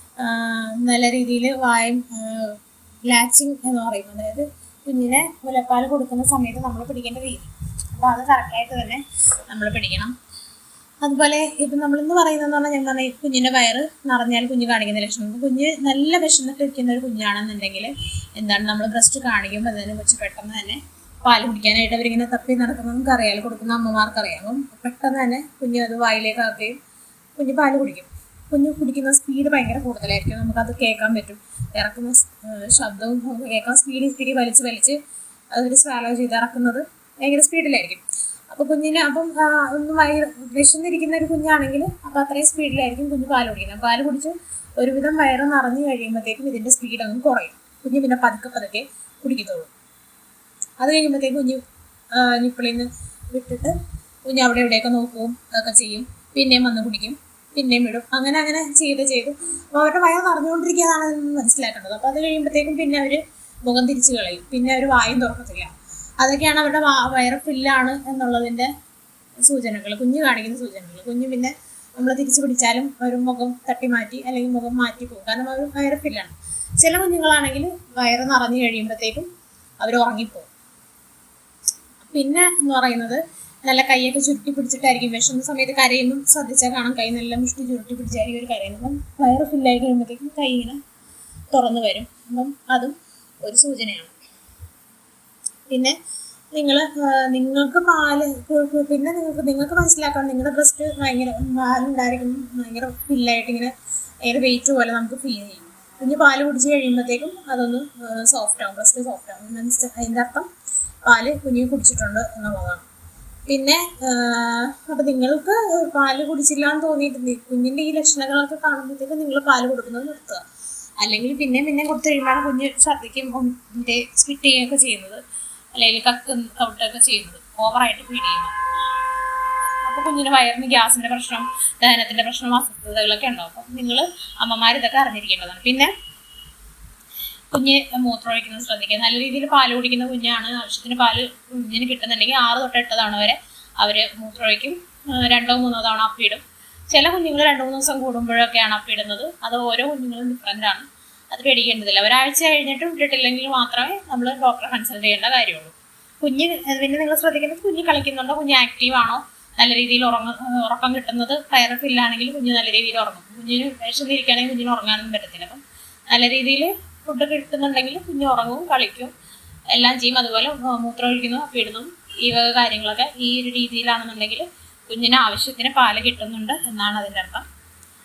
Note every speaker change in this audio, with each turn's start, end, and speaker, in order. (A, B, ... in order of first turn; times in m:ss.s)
0:00.2-0:10.1 A
0:11.0-0:26.8 A
0:27.4-0:35.0 A
0:35.5-0:49.7 A
0:50.8-0:51.6 A
0:52.1-1:08.7 A
1:09.4-1:19.3 A
1:19.8-1:20.5 A
1:22.1-1:30.8 A
1:31.5-1:34.1 A
1:35.7-1:36.0 A
1:36.5-1:43.7 A
1:44.2-1:50.5 A
1:51.0-1:52.8 A
1:53.5-2:00.4 A
2:01.0-2:05.2 A
2:05.7-2:08.5 A
2:09.8-2:15.9 A
2:17.5-2:49.1 A
2:49.7-2:57.4 A